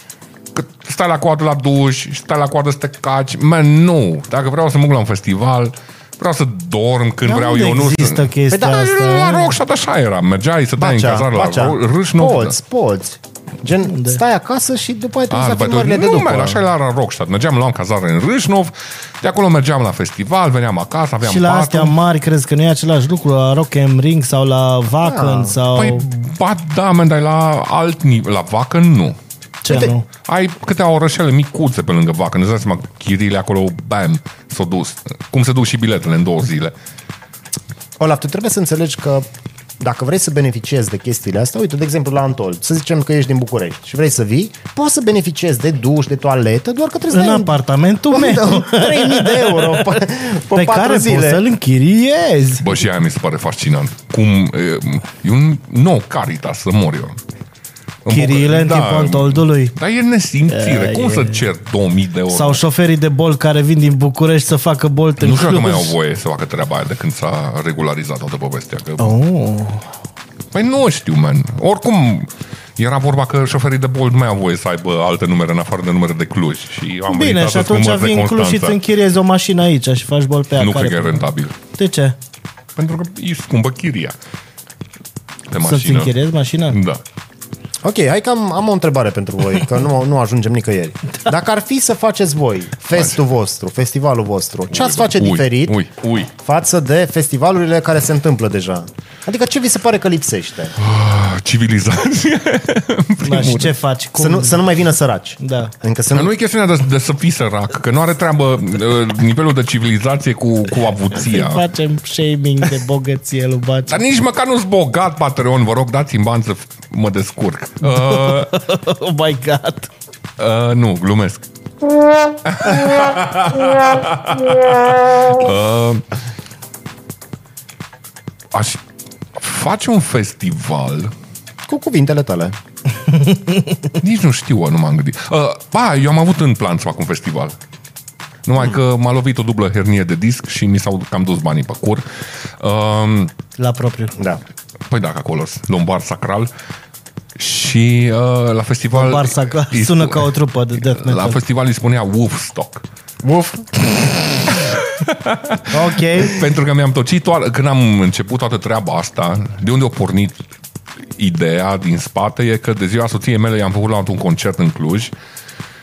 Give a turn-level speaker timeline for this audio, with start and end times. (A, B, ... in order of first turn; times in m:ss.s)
0:00.5-0:12.5 A
0:07.2-0:09.6 B
0:08.5-0:08.8 C
0:10.8-0:16.6 C
0:13.8-0:14.2 B
0:15.3-0:22.0 A
0:21.2-0:26.0 B
0:25.0-0:25.6 C
0:25.7-0:29.2 A
0:29.6-0:30.0 B
0:29.7-0:29.9 C
0:30.1-0:36.7 A
0:38.0-0:39.2 C
0:39.8-0:47.5 C
0:47.1-0:50.0 B
0:48.1-0:51.4 C
0:50.5-0:52.7 B
0:52.6-0:57.2 A
0:58.0-1:02.6 A
0:58.1-0:59.8 B
1:00.5-1:01.4 B
1:02.3-1:05.9 B
1:05.2-1:09.2 A
1:09.0-1:09.9 B
1:10.5-1:18.8 A
1:17.1-1:21.2 B
1:20.6-1:21.6 A
1:21.7-1:22.2 B
1:22.8-1:24.1 A
1:25.5-1:26.1 A
1:25.6-1:26.8 B
1:26.7-1:27.0 A
1:27.8-1:35.8 C
1:34.7-1:36.3 A
1:36.3-1:40.8 C
1:40.8-1:43.7 A
1:43.2-1:44.6 B
1:44.2-1:46.3 C
1:45.4-1:45.7 B
1:46.1-1:51.6 A
1:51.1-1:54.0 B
1:53.9-1:58.6 A
1:57.8-1:59.9 B
2:00.4-2:01.4 A
2:02.4-2:06.0 A
2:08.5-2:08.8 A
2:09.4-2:11.1 A
2:11.7-2:12.6 C
2:14.0-2:17.6 A
2:18.4-2:22.0 A
2:22.6-2:23.3 A
2:23.6-2:24.2 B
2:24.9-2:26.5 A
2:27.4-2:32.8 A
2:28.9-2:31.4 B
2:33.2-2:33.9 C
2:34.5-2:40.4 A
2:35.7-2:36.4 B
2:41.2-2:45.1 A